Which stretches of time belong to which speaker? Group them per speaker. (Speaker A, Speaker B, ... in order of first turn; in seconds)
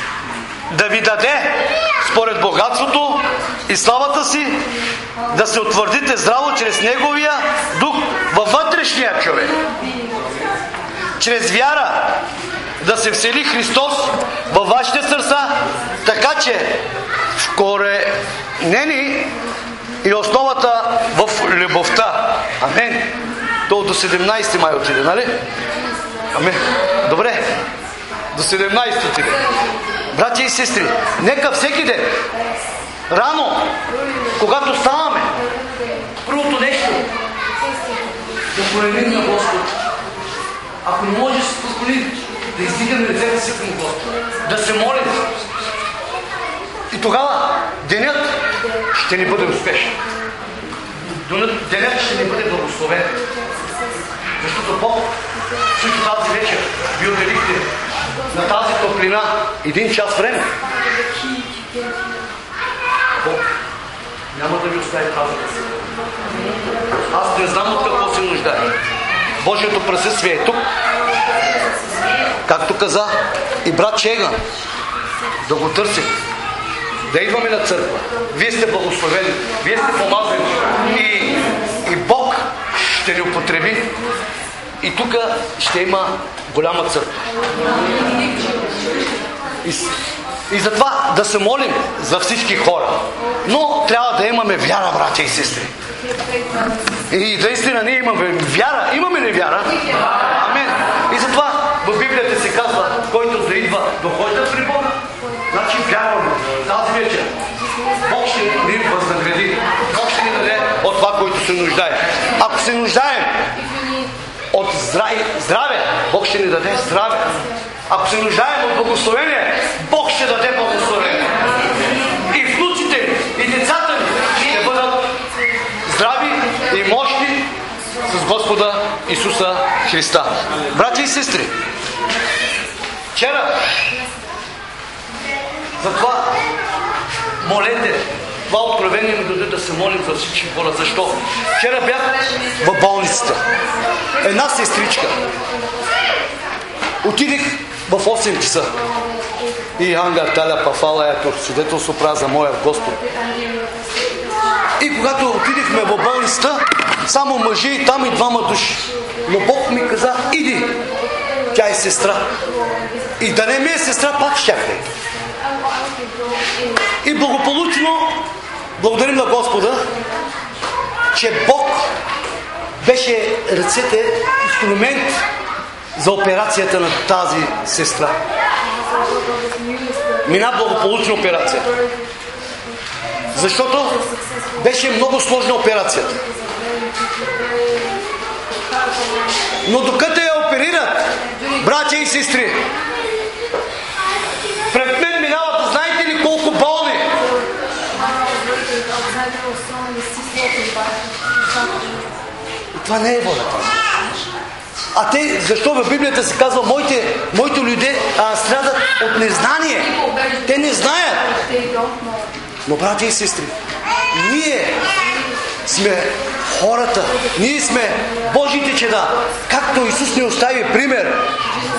Speaker A: 0.7-4.7, 5.3-9.6, 11.2-12.2, 12.8-16.8, 17.4-19.4, 20.0-23.1, 23.7-25.4, 26.3-27.5, 28.3-29.4, 30.1-32.2, 33.1-33.8, 34.4-35.3, 36.2-37.1, 38.5-39.7, 40.8-45.4, 46.9-50.0, 51.1-53.2, 54.4-55.1, 55.7-57.7, 58.3-60.5, 63.2-63.4, 64.3-65.9, 67.1-68.7, 69.4-70.6, 72.5-74.4, 75.5-76.1, 77.1-84.0, 84.8-87.3, 89.6-89.9, 90.5-95.7, 97.1-105.0, 105.5-107.4, 108.0-113.5, 114.5-121.5, 122.2-125.2, 125.9-127.5, 128.1-131.5, 133.1-133.6, 135.8-136.4, 137.4-143.5, 144.2-145.2, 147.0-148.8, 149.8-153.0, 154.8-160.8, 161.5-162.4, 163.2-164.9, 167.0-168.2, 168.8-169.9, 171.1-171.9, 172.8-175.2, 176.0-178.2, 180.2-181.7, 183.3-184.1, 184.6-186.2, 189.7-192.6, 194.7-197.2, 202.7-203.8, 204.9-211.4, 212.7-213.5, 214.1-214.8, 215.7-221.2